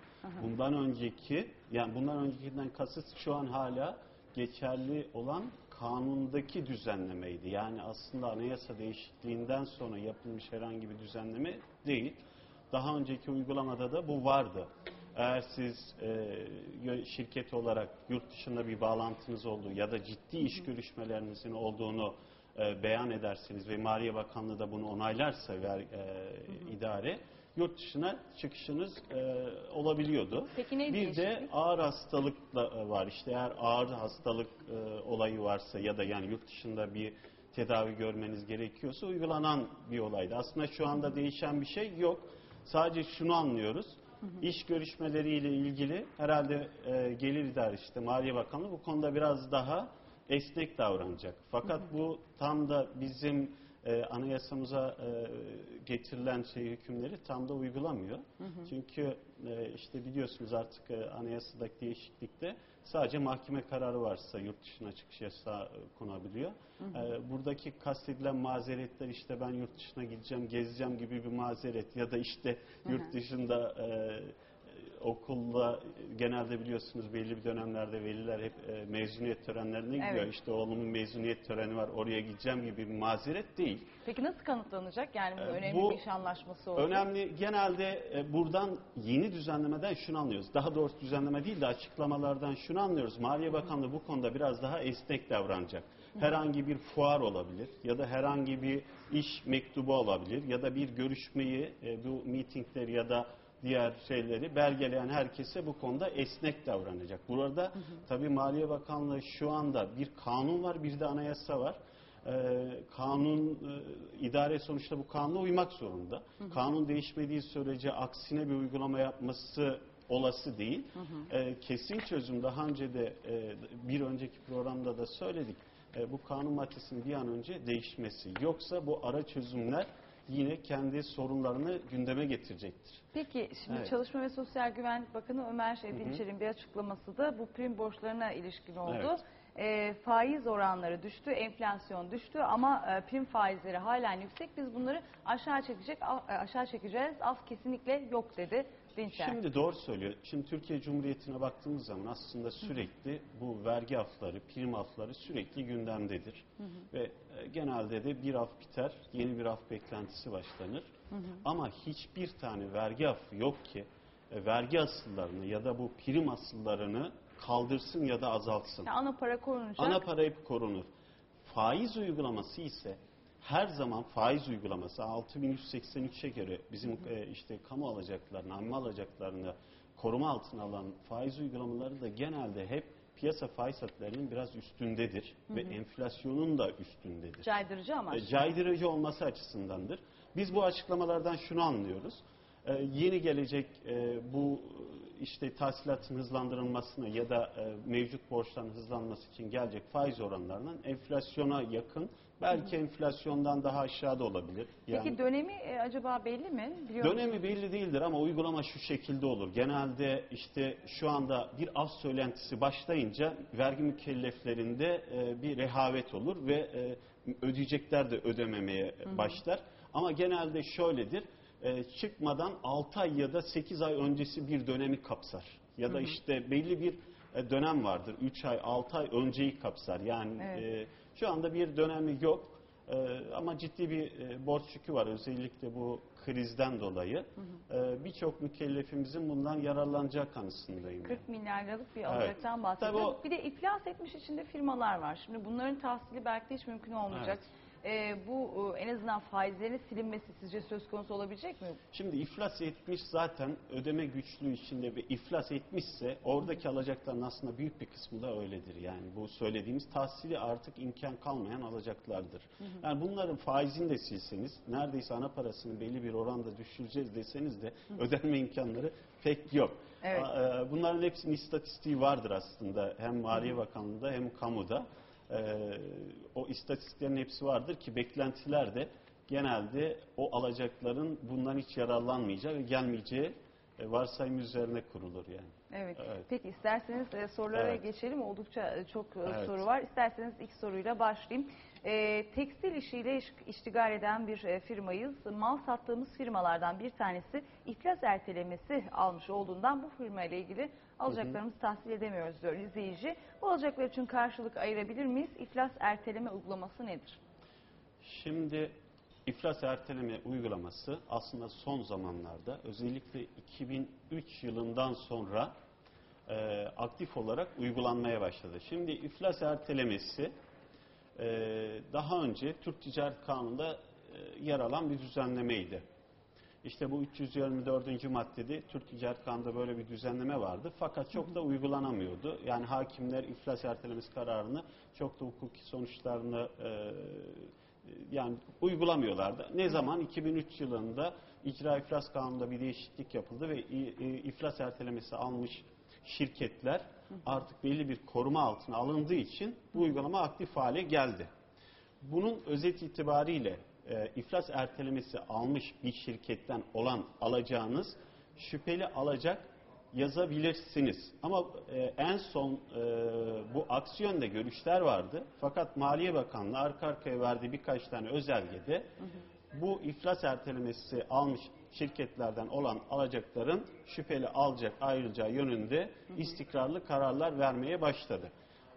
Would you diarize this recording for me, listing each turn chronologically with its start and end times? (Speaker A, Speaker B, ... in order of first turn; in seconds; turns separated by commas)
Speaker A: 0.4-12.2, Speaker A: 12.7-83.9, Speaker B: 30.6-31.5, Speaker B: 80.0-80.3, Speaker B: 84.0-87.1, Speaker A: 85.4-86.0, Speaker A: 86.8-133.0, Speaker B: 133.2-149.4, Speaker A: 135.9-136.2, Speaker A: 138.9-139.2, Speaker A: 149.1-160.9, Speaker A: 161.4-168.9, Speaker B: 168.8-170.0, Speaker A: 169.8-170.9, Speaker A: 171.4-187.5, Speaker B: 187.4-188.5, Speaker A: 188.1-205.2, Speaker B: 204.9-207.3, Speaker A: 207.0-241.2, Speaker B: 241.1-251.8, Speaker A: 242.1-243.2, Speaker A: 247.1-247.4, Speaker A: 251.9-286.3, Speaker B: 270.0-270.3, Speaker B: 285.7-307.2, Speaker A: 287.5-287.8, Speaker A: 289.3-289.6, Speaker A: 301.1-301.4, Speaker A: 308.0-315.5, Speaker A: 316.3-320.3, Speaker A: 321.2-325.8, Speaker A: 326.6-351.3, Speaker A: 352.0-368.9, Speaker A: 369.5-378.3